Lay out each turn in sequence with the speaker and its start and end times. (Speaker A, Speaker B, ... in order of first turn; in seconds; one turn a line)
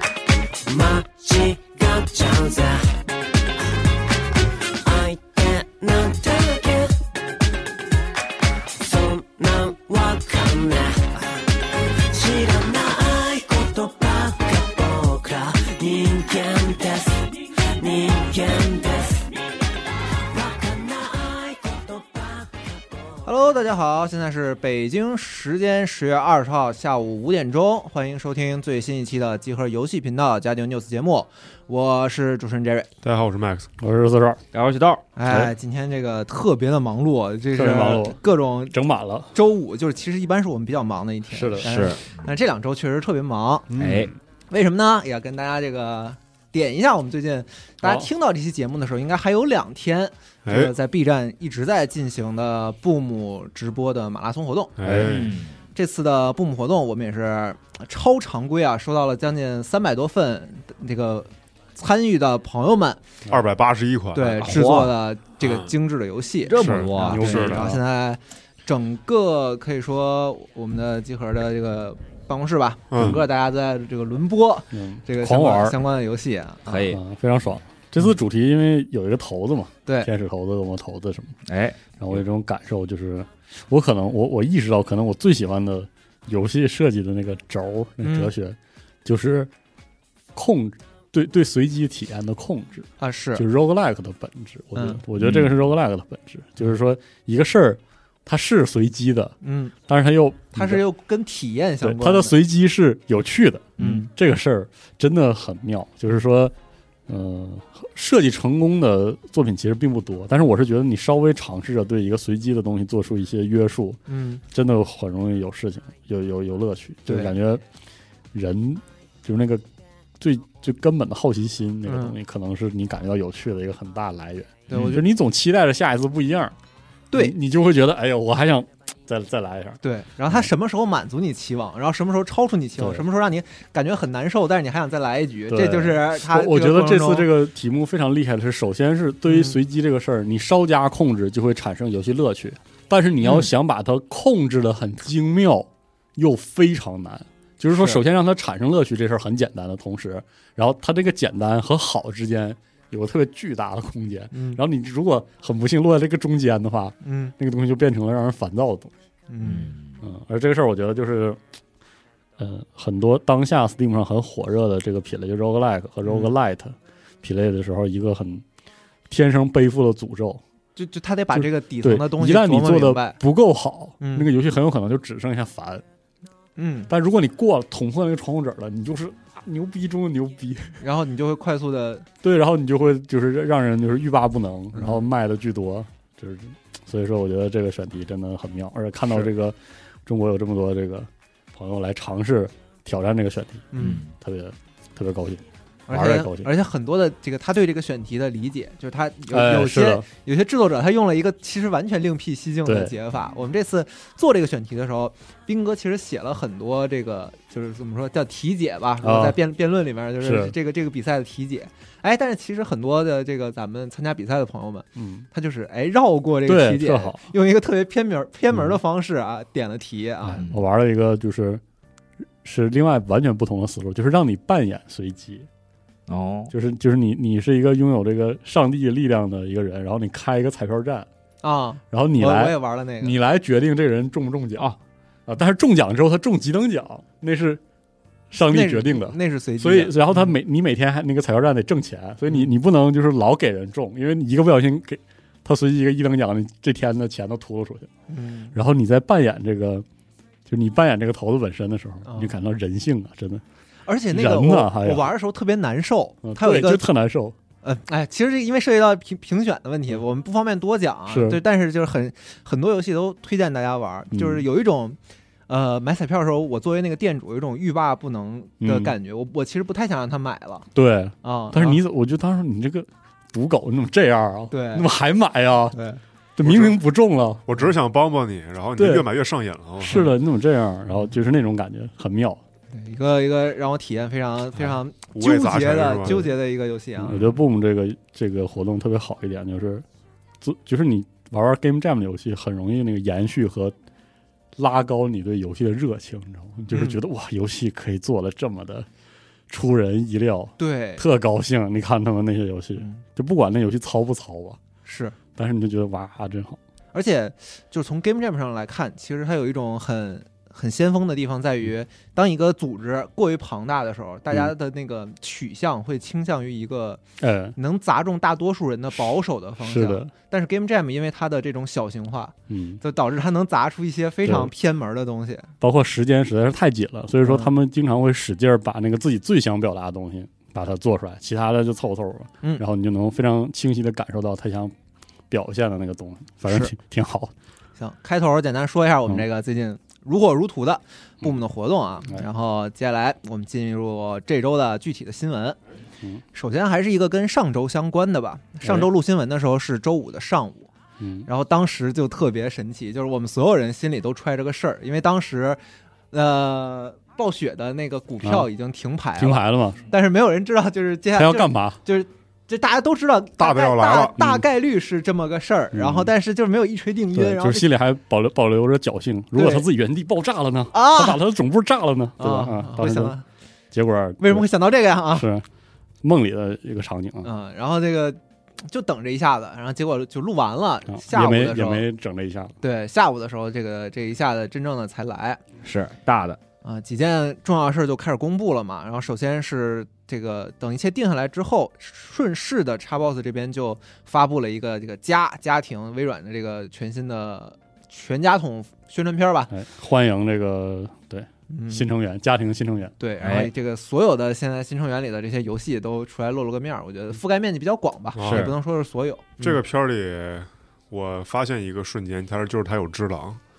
Speaker A: 0.7-2.9
Speaker A: 4.8-7.0
Speaker A: 8.8-11.3
Speaker A: 12.0-19.3
Speaker A: 20.3-23.2
Speaker B: 23.2-32.9
Speaker C: 33.0-33.7
Speaker D: 33.8-34.4
Speaker E: 34.5-35.0
Speaker B: 35.2-38.8
Speaker D: 37.5-38.2
Speaker D: 38.7-39.3
Speaker B: 39.3-43.7
Speaker D: 41.3-41.7
Speaker E: 41.6-42.3
Speaker C: 43.7-44.2
Speaker E: 43.8-44.1
Speaker B: 44.5-54.8
Speaker D: 47.8-48.1
Speaker C: 50.5-50.7
Speaker C: 54.8-55.4
Speaker E: 54.8-55.6
Speaker B: 55.8-63.0
Speaker C: 63.3-64.6
Speaker B: 64.1-76.6
Speaker E: 64.4-64.9
Speaker C: 65.4-65.7
Speaker E: 66.5-67.5
Speaker C: 66.6-67.7
Speaker D: 67.0-67.8
Speaker C: 72.9-73.2
Speaker D: 73.0-73.2
Speaker D: 74.7-75.8
Speaker E: 76.7-77.0
Speaker D: 76.7-81.4
Speaker E: 81.5-81.9
Speaker D: 82.0-89.5
Speaker B: 88.0-88.3
Speaker D: 90.3-99.3
Speaker B: 93.0-93.5
Speaker B: 94.8-95.0
Speaker E: 95.2-95.5
Speaker B: 99.4-99.7
Speaker D: 99.9-100.8
Speaker B: 100.5-102.4
Speaker D: 101.8-106.5
Speaker B: 103.8-104.1
Speaker D: 107.1-117.6
Speaker B: 114.1-114.4
Speaker B: 117.1-117.3
Speaker D: 118.3-119.6
Speaker D: 120.2-126.5
Speaker B: 121.9-122.2
Speaker B: 124.7-125.1
Speaker B: 127.1-127.4
Speaker D: 127.1-130.5
Speaker B: 129.8-137.3
Speaker D: 132.8-133.1
Speaker D: 135.5-158.9
Speaker B: 139.3-139.6
Speaker B: 147.7-148.0
Speaker B: 154.3-154.6
Speaker B: 157.0-157.3
Speaker B: 159.3-159.7
Speaker E: 159.4-160.0
Speaker D: 160.0-161.4
Speaker D: 162.4-168.4
Speaker B: 166.1-166.3
Speaker D: 169.1-170.4
Speaker B: 170.8-173.2
Speaker D: 171.3-175.8
Speaker B: 174.0-174.3
Speaker B: 176.6-176.9
Speaker D: 176.9-180.8
Speaker B: 180.8-182.1
Speaker D: 182.2-196.5
Speaker B: 184.7-185.0
Speaker B: 193.7-194.0
Speaker E: 193.8-194.1
Speaker B: 195.9-220.4
Speaker D: 199.3-200.1
Speaker D: 202.7-202.9
Speaker D: 209.0-209.4
Speaker D: 210.2-210.5
Speaker D: 215.0-215.3
Speaker D: 216.5-217.2
Speaker D: 218.5-218.8
Speaker D: 220.2-221.6
Speaker D: 222.4-225.5
Speaker E: 226.1-226.5
Speaker D: 226.5-231.1
Speaker B: 231.4-233.2
Speaker D: 231.9-234.7
Speaker D: 235.3-237.6
Speaker D: 238.3-247.9
Speaker B: 238.5-240.3
Speaker B: 248.1-248.5
Speaker D: 248.5-249.9
Speaker D: 250.5-253.4
Speaker B: 252.1-252.3
Speaker B: 253.9-256.9
Speaker D: 254.1-255.1
Speaker D: 256.2-257.4
Speaker B: 257.6-270.7
Speaker D: 261.1-261.4
Speaker D: 264.1-264.4
Speaker D: 268.6-268.9
Speaker D: 270.8-275.8
Speaker B: 271.2-271.8
Speaker B: 274.5-274.9
Speaker B: 275.7-276.0
Speaker D: 276.4-277.4
Speaker C: 276.4-276.8
Speaker C: 277.5-280.1
Speaker D: 278.8-279.1
Speaker D: 279.8-282.4
Speaker B: 282.7-287.2
Speaker C: 285.1-286.2
Speaker D: 287.0-289.9
Speaker D: 290.4-293.8
Speaker D: 294.6-298.9
Speaker B: 296.7-297.0
Speaker D: 299.5-304.6
Speaker B: 300.6-301.1
Speaker B: 302.8-303.0
Speaker B: 304.9-305.2
Speaker D: 305.4-306.6
Speaker B: 306.9-317.0
Speaker D: 317.2-317.6
Speaker B: 317.6-325.5
Speaker D: 319.6-320.1
Speaker D: 322.5-322.8
Speaker D: 324.2-324.5
Speaker D: 325.6-334.7
Speaker B: 327.2-327.5
Speaker D: 335.3-337.3
Speaker B: 336.5-336.7
Speaker B: 337.8-345.6
Speaker B: 346.3-350.7
Speaker D: 348.6-348.9
Speaker D: 351.0-351.3
Speaker B: 351.3-355.6
Speaker B: 356.1-367.7
Speaker D: 358.2-358.5
Speaker D: 359.2-359.8
Speaker D: 361.1-361.8
Speaker C: 363.4-364.1
Speaker D: 364.2-364.4
Speaker D: 365.7-366.1
Speaker D: 367.1-373.2
Speaker B: 369.3-369.7
Speaker B: 370.7-371.2
Speaker B: 372.2-373.2
Speaker D: 373.7-374.5
Speaker B: 374.2-375.3
Speaker D: 375.1-375.5
Speaker D: 376.0-377.3
Speaker B: 377.2-381.9
Speaker D: 380.9-382.6
Speaker B: 382.6-385.4
Speaker E: 385.6-386.4
Speaker B: 386.6-399.5
Speaker D: 399.5-402.9
Speaker B: 401.5-401.9
Speaker B: 403.0-409.6
Speaker E: 403.2-403.5
Speaker C: 408.2-408.5
Speaker E: 408.2-408.5
Speaker C: 409.4-413.4